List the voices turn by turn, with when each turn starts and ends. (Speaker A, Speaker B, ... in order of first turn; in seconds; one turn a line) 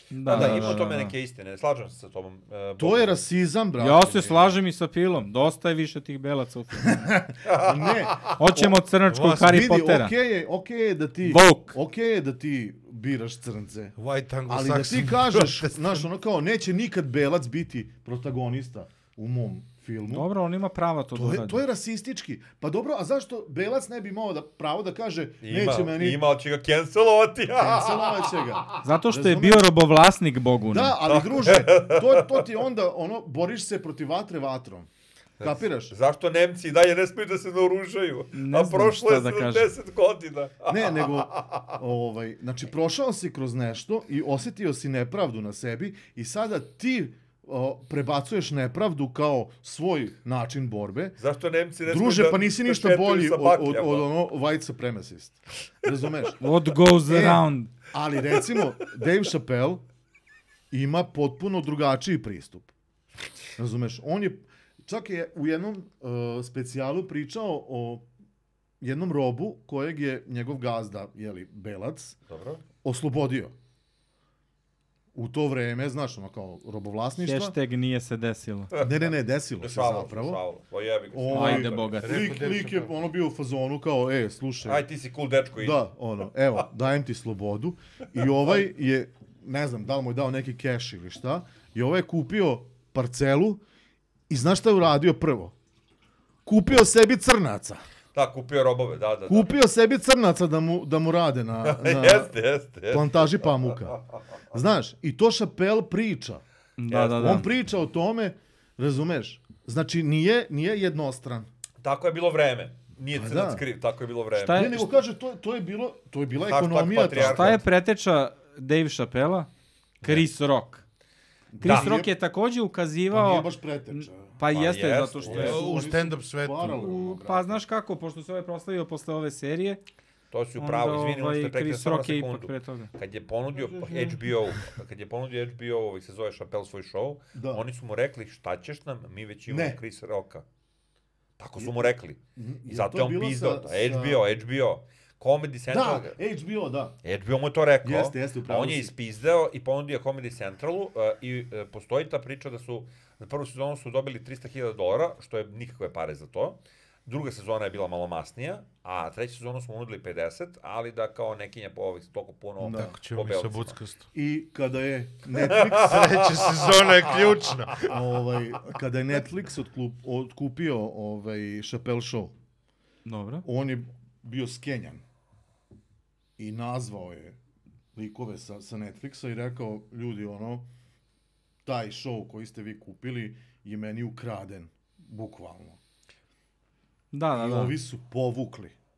Speaker A: 0.1-1.1
Speaker B: 0.2-3.2
Speaker C: 0.3-0.8
Speaker C: 2.8-4.5
Speaker A: 3.8-7.1
Speaker C: 6.8-8.8
Speaker B: 7.4-8.3
Speaker A: 8.4-10.1
Speaker D: 9.1-9.6
Speaker C: 9.3-13.9
Speaker A: 11.2-11.7
Speaker D: 14.0-16.1
Speaker C: 14.5-20.3
Speaker A: 20.1-21.6
Speaker C: 21.1-26.2
Speaker B: 25.4-28.8
Speaker C: 27.6-29.7
Speaker A: 28.8-31.0
Speaker C: 30.7-34.9
Speaker B: 31.1-32.4
Speaker B: 35.4-41.7
Speaker C: 35.4-35.9
Speaker A: 38.3-39.7
Speaker C: 40.7-51.2
Speaker B: 51.2-54.1
Speaker C: 51.8-56.4
Speaker A: 56.4-57.7
Speaker C: 57.0-59.8
Speaker C: 60.7-62.7
Speaker C: 63.6-68.0
Speaker C: 68.8-72.2
Speaker B: 72.3-72.6
Speaker C: 72.8-73.5
Speaker C: 75.1-77.5
Speaker A: 77.2-78.7
Speaker B: 78.7-81.9
Speaker C: 78.8-80.4
Speaker C: 81.1-84.8
Speaker A: 81.3-82.3
Speaker D: 82.0-82.9
Speaker B: 84.6-85.8
Speaker C: 85.6-93.6
Speaker C: 94.3-95.5
Speaker C: 96.5-97.8
Speaker B: 98.1-99.5
Speaker C: 99.3-102.3
Speaker B: 101.6-104.0
Speaker C: 102.9-104.0
Speaker C: 104.5-106.4
Speaker A: 106.8-107.5
Speaker B: 106.9-107.4
Speaker C: 107.1-111.5
Speaker B: 111.8-114.9
Speaker C: 113.1-113.6
Speaker A: 114.3-114.8
Speaker C: 114.5-117.6
Speaker B: 116.4-117.6
Speaker A: 117.1-119.5
Speaker B: 120.0-120.3
Speaker A: 120.0-120.8
Speaker C: 121.5-122.1
Speaker A: 121.6-125.7
Speaker B: 121.6-122.0
Speaker C: 123.1-124.4
Speaker B: 124.5-125.6
Speaker C: 125.3-127.6
Speaker D: 125.3-126.9
Speaker A: 126.8-129.8
Speaker B: 130.3-140.4
Speaker A: 130.6-132.9
Speaker C: 133.5-134.3
Speaker C: 137.3-137.6
Speaker C: 139.5-139.8
Speaker B: 141.4-146.2
Speaker C: 141.6-144.2
Speaker C: 145.7-147.0
Speaker B: 147.0-163.8
Speaker C: 147.8-148.9
Speaker C: 162.6-162.9
Speaker D: 162.7-164.1
Speaker C: 164.1-166.0
Speaker B: 165.4-167.8
Speaker D: 165.6-167.9
Speaker C: 167.8-172.3
Speaker A: 173.0-173.4
Speaker C: 173.4-175.0
Speaker C: 176.4-177.4
Speaker C: 177.9-180.7
Speaker C: 181.6-185.8
Speaker A: 187.1-187.8
Speaker C: 187.3-188.7